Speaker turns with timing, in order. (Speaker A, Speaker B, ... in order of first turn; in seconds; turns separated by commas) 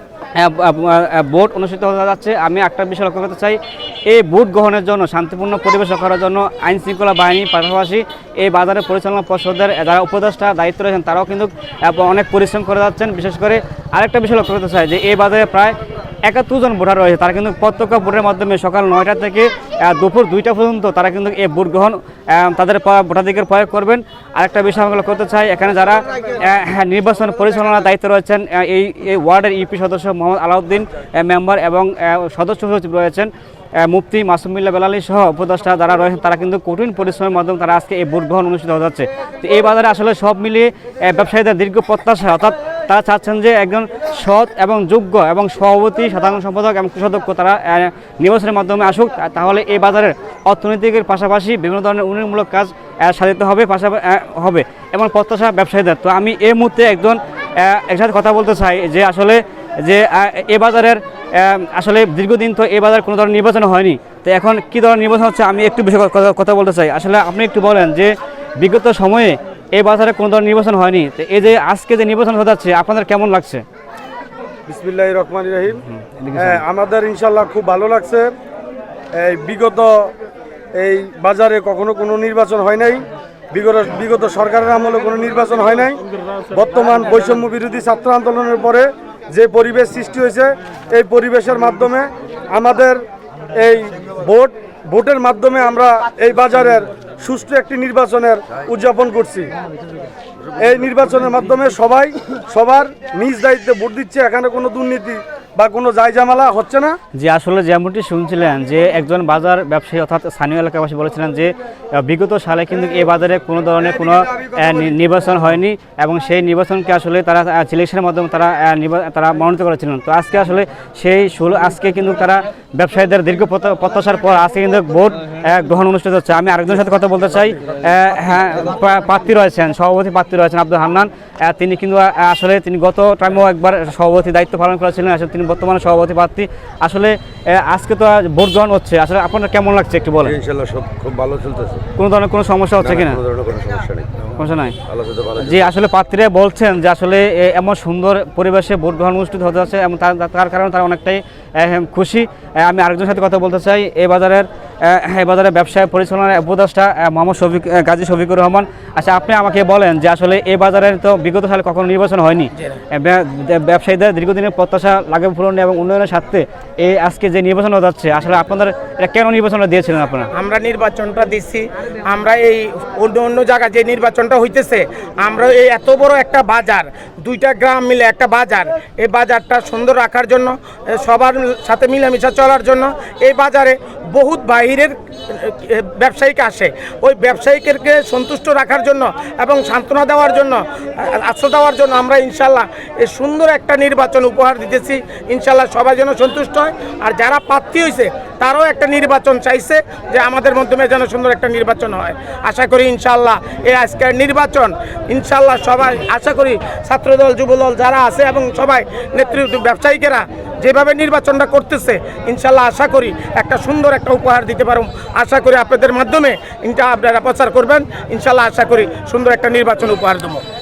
Speaker A: 0.3-73.6, Speaker B: 74.7-75.8, Speaker A: 75.9-76.6, Speaker B: 76.4-78.3, Speaker B: 79.2-80.1, Speaker B: 80.8-93.0, Speaker B: 93.5-99.5, Speaker B: 100.6-107.0, Speaker A: 107.2-140.4, Speaker C: 140.3-141.8, Speaker A: 142.0-143.2, Speaker C: 142.8-144.1, Speaker A: 144.4-144.8, Speaker C: 144.9-145.7, Speaker A: 145.4-170.3, Speaker D: 170.3-220.4